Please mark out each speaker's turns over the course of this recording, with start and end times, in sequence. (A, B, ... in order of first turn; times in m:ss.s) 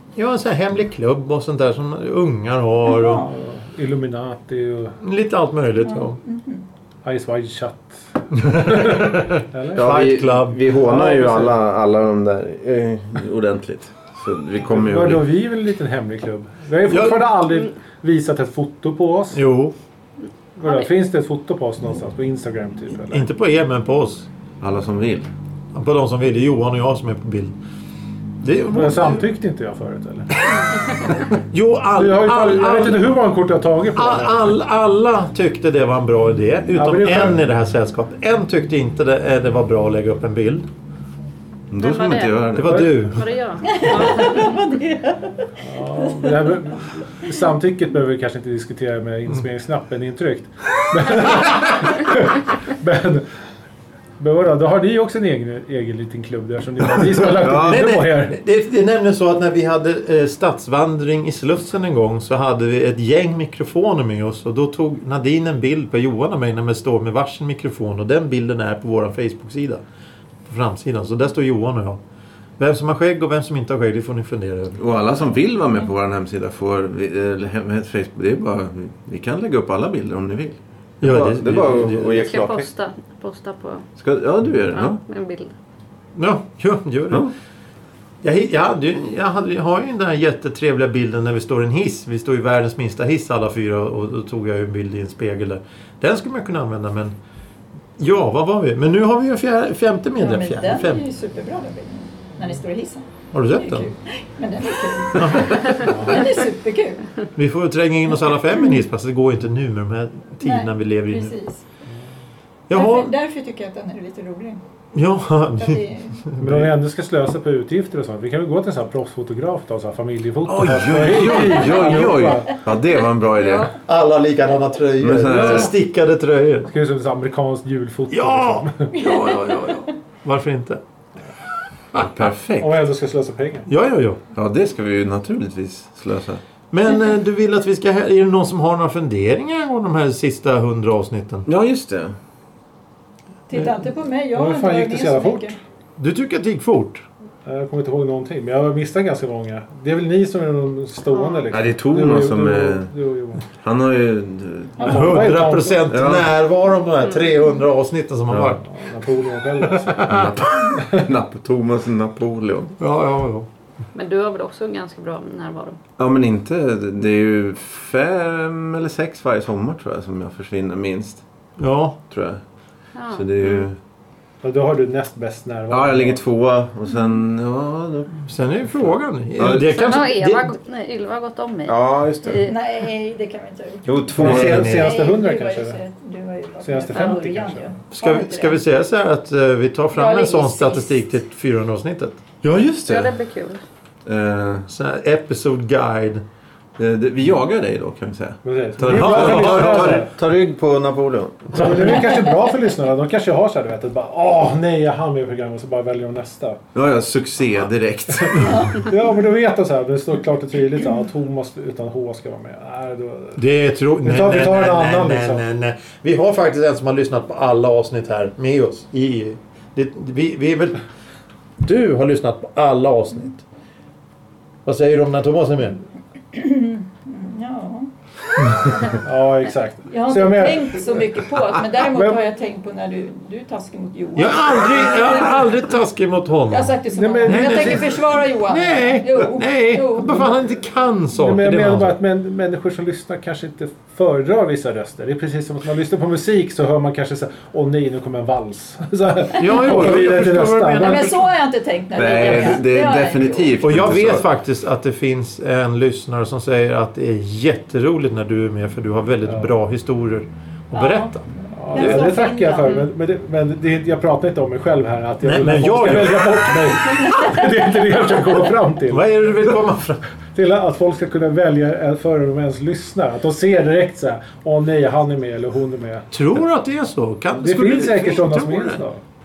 0:00.2-0:03.3 A
0:02.8-0:03.3 B
0:03.2-0:05.0 C
0:05.0-0:06.2 A
0:05.8-0:06.6 B
0:07.0-0:09.9 C
0:08.4-0:10.6 A
0:09.7-0:15.3 D
0:10.8-0:11.5 C
0:14.6-0:19.4 C
0:16.9-0:17.2 A
0:19.3-0:19.7 A
0:20.6-0:23.2 C
0:23.1-0:24.3 A
0:24.6-0:25.3 D
0:25.7-0:27.6 A
0:28.4-0:29.3 A
0:28.7-0:30.3 C
0:31.3-0:33.0 A
0:31.9-0:34.4 C
0:33.9-0:40.7 A
0:36.7-0:37.3 C
0:41.7-0:42.9 D
0:41.8-0:44.6 E
0:42.6-0:43.3 A
0:43.6-0:45.5 B
0:45.6-0:53.2 C
0:46.0-0:46.5 B
0:54.2-0:58.4 C
0:57.4-1:09.8 A
0:57.4-0:57.8 D
1:10.5-1:12.0 A
1:12.6-1:14.8 A
1:14.8-1:22.7 D
1:21.0-1:22.2 A
1:22.1-1:23.9 E
1:24.0-1:25.0 D
1:24.7-1:25.5 E
1:26.1-1:27.3 A
1:28.2-1:37.1 A
1:38.0-1:41.0 A
1:40.2-1:47.1 B
1:43.3-1:43.9 A
1:45.1-1:46.2 A
1:45.7-1:46.3 C
1:47.4-1:51.3 A
1:50.4-1:51.6 B
1:52.7-1:53.1 A
1:52.7-1:54.6 B
1:54.9-1:56.7 A
1:55.6-1:56.2 B
1:56.4-2:02.6 C
2:00.4-2:01.6 A
2:00.6-2:03.7 D
2:03.4-2:03.7 E
2:03.8-2:06.7 A
2:05.0-2:05.7 D
2:05.3-2:05.6 C
2:06.6-2:09.0 C
2:08.1-2:10.8 A
2:09.0-2:09.8 B
2:11.9-2:12.8 D
2:12.6-2:13.7 C
2:13.7-2:14.2 A
2:14.3-2:16.4 D
2:16.7-2:21.5 A
2:21.5-2:22.1 D
2:23.5-2:25.6 B
2:24.3-2:25.6 C
2:26.0-2:27.0 A
2:27.4-2:33.4 C
2:31.5-2:32.9 D
2:33.5-2:35.2 D
2:34.8-2:35.9 C
2:34.8-2:38.6 A
2:35.9-2:36.3 D
2:37.0-2:37.4 E
2:38.3-2:38.6 D
2:38.6-2:40.2 C
2:39.6-2:40.4 A
2:40.1-2:42.8 D
2:42.8-2:43.5 A
2:43.9-2:45.8 E
2:46.0-2:51.2 D
2:51.6-2:52.0 A
2:52.1-2:52.4 D
2:52.9-2:53.6 E
2:53.1-2:53.8 D
2:54.4-2:56.2 C
2:55.7-2:58.2 D
2:58.2-3:00.6 A
2:59.4-2:59.9 D
2:59.5-3:02.6 E
3:01.6-3:02.5 D
3:02.4-3:08.6 B
3:03.8-3:04.7 D
3:04.1-3:05.0 A
3:04.1-3:05.8 C
3:06.6-3:07.7 C
3:07.9-3:12.2 A
3:09.9-3:11.0 B
3:12.4-3:13.1 D
3:12.9-3:13.6 E
3:14.0-3:14.7 D
3:14.7-3:16.2 A
3:16.8-3:22.0 D
3:18.4-3:20.1 C
3:18.8-3:20.0 A
3:21.5-3:26.6 C
3:26.7-3:28.7 D
3:28.2-3:33.4 C
3:33.4-3:40.8 A
3:34.0-3:35.4 C
3:41.6-3:43.4 A
3:44.6-3:45.8 A
3:46.3-3:47.9 B
3:48.5-3:48.9 B
3:48.9-3:51.2 C
3:49.9-3:55.5 B
3:51.8-3:52.2 C
3:54.1-4:02.0 A
3:56.5-4:00.2 B
3:56.9-3:57.9 C
4:01.1-4:11.1 C
4:09.4-4:11.3 A
4:10.8-4:13.6 B
4:11.9-4:14.3 D
4:13.6-4:22.2 A
4:20.7-4:21.2 B
4:21.5-4:29.1 C
4:21.7-4:22.9 B
4:25.2-4:27.2 A
4:28.9-4:30.0 A
4:30.3-4:36.1 C
4:36.1-4:38.8 A
4:37.4-4:39.0 C